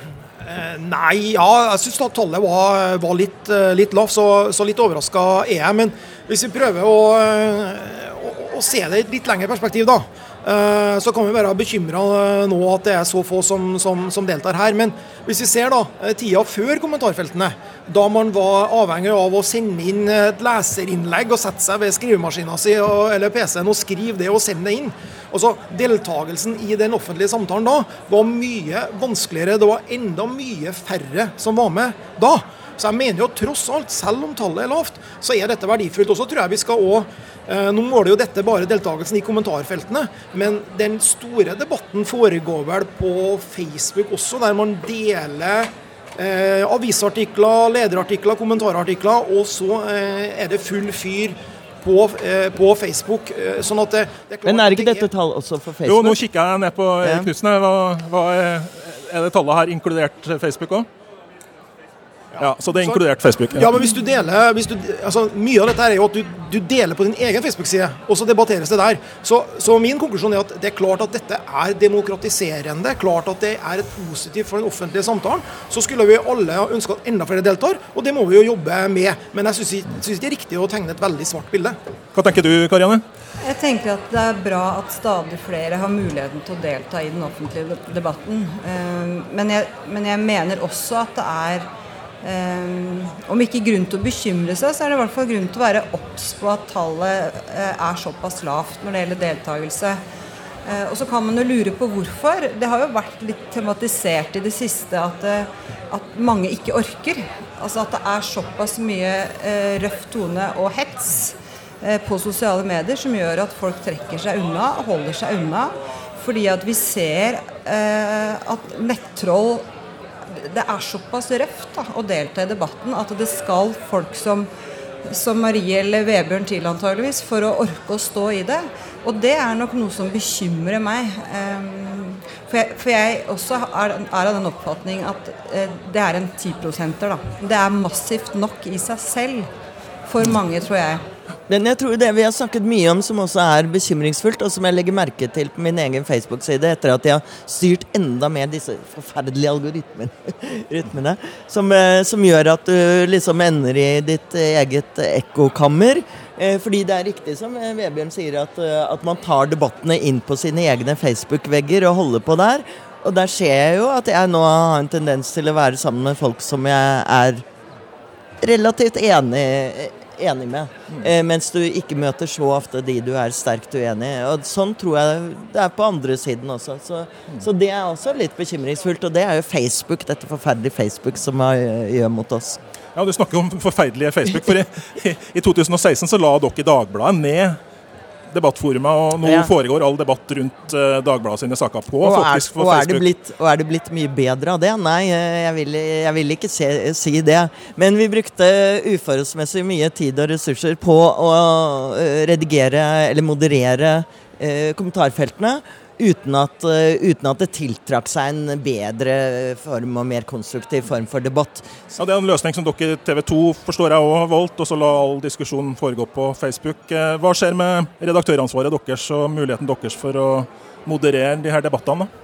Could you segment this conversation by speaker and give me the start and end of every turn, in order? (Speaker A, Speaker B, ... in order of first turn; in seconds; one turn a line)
Speaker A: 0.4-55.1
Speaker B: 54.5-56.2
Speaker C: 55.9-60.9
Speaker B: 57.0-57.3
Speaker A: 62.4-63.0
Speaker C: 62.4-63.8
Speaker A: 63.5-81.8
Speaker C: 82.2-83.0
Speaker D: 83.4-91.7
Speaker D: 92.2-100.0
Speaker D: 100.7-119.7
Speaker D: 120.3-124.5
Speaker D: 125.1-139.5
Speaker D: 140.1-141.0
Speaker B: 141.5-167.4
Speaker B: 168.4-182.6
Speaker C: 183.0-187.6
Speaker C: 188.3-193.0
Speaker B: 189.2-189.5
Speaker B: 192.0-211.8
Speaker C: 212.0-222.1